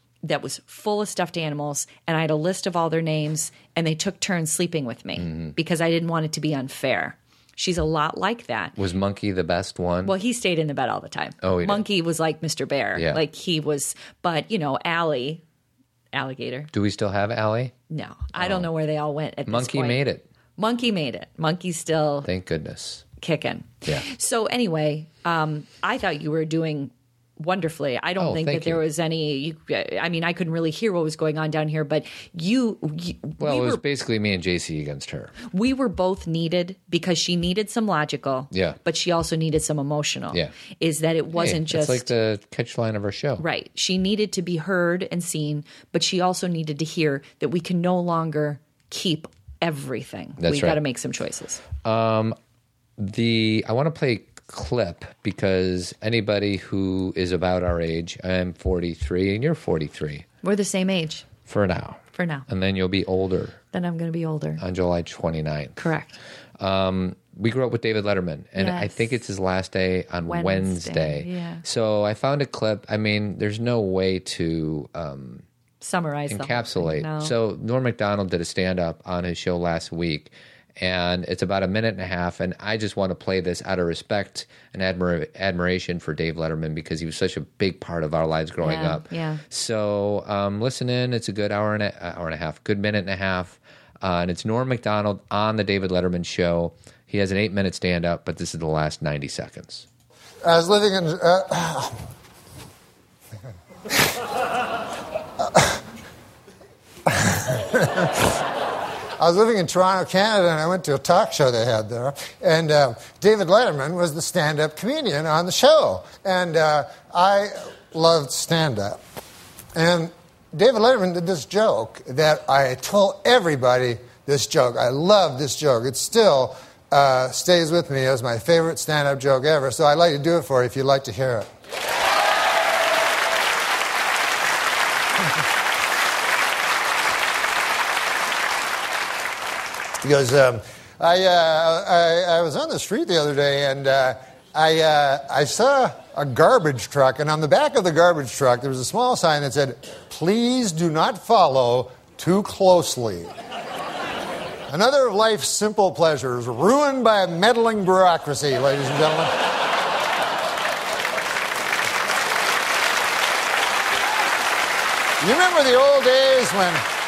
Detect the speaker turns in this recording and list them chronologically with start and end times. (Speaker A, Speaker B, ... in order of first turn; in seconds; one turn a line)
Speaker A: 0.2-8.8
Speaker B: 5.2-5.5
Speaker B: 8.8-10.1
Speaker A: 10.0-15.4
Speaker B: 11.4-11.8
Speaker A: 16.1-16.7
Speaker B: 16.7-17.7
Speaker A: 17.9-20.0
Speaker B: 18.4-18.7
Speaker B: 19.5-20.2
Speaker A: 20.6-22.3
Speaker B: 22.2-23.0
Speaker A: 23.2-33.8
Speaker B: 28.2-28.8
Speaker B: 33.4-35.4
Speaker A: 35.5-42.1
Speaker B: 38.5-38.8
Speaker B: 41.3-43.4
Speaker A: 43.4-51.6
Speaker B: 50.4-50.8
Speaker B: 51.8-52.4
Speaker B: 53.0-60.2
Speaker A: 60.4-61.3
Speaker B: 61.5-63.6
Speaker A: 62.1-62.5
Speaker A: 63.7-64.6
Speaker B: 64.6-65.8
Speaker A: 65.8-66.2
Speaker B: 66.6-75.4
Speaker A: 68.6-69.0
Speaker A: 70.2-71.6
Speaker A: 75.8-77.3
Speaker B: 76.3-99.8
Speaker A: 88.6-89.4
Speaker C: 100.4-102.0
Speaker C: 105.4-105.7
Speaker C: 107.0-108.4
Speaker C: 109.2-119.0
Speaker C: 119.7-131.5
Speaker C: 140.0-153.3
Speaker C: 154.7-159.3
Speaker C: 165.2-166.8